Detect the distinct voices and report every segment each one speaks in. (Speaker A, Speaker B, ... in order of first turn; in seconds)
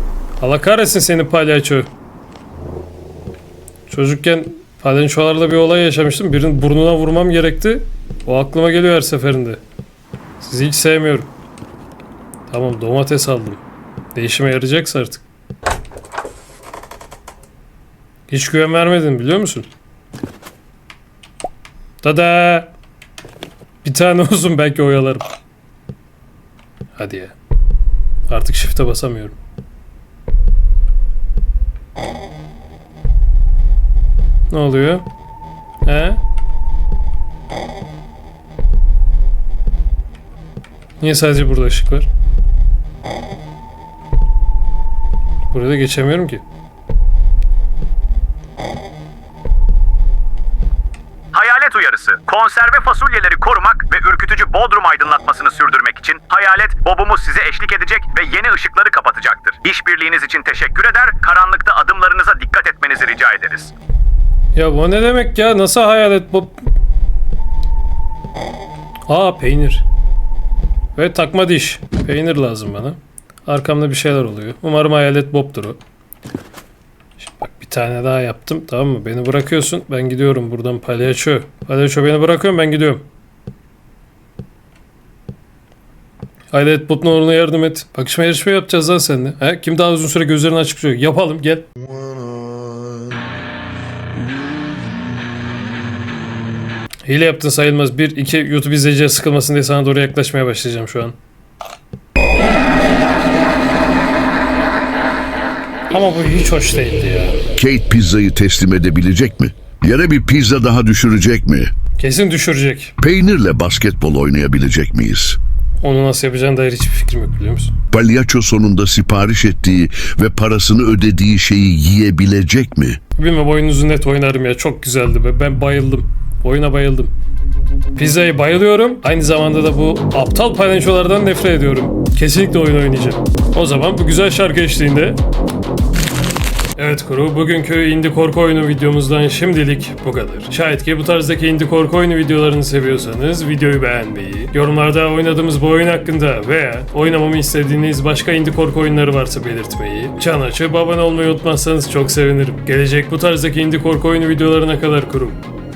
Speaker A: 0.4-1.9, 3.9-9.6, 10.4-11.3, 12.5-13.6, 14.1-15.2, 18.3-19.7, 22.0-22.7, 23.8-25.2, 26.9-27.3, 28.3-29.3, 34.5-35.0, 35.8-36.2, 41.0-42.1, 45.5-46.4, 64.5-66.5, 69.1-69.8, 70.9-75.8, 77.2-83.0, 86.5-91.7, 97.0-101.2, 105.9-107.4, 112.0-112.9, 115.8-117.7, 123.2-127.1, 128.0-135.2, 136.8-155.4
Speaker B: 51.3-63.7
Speaker C: 107.5-111.7, 113.0-115.4, 117.9-123.0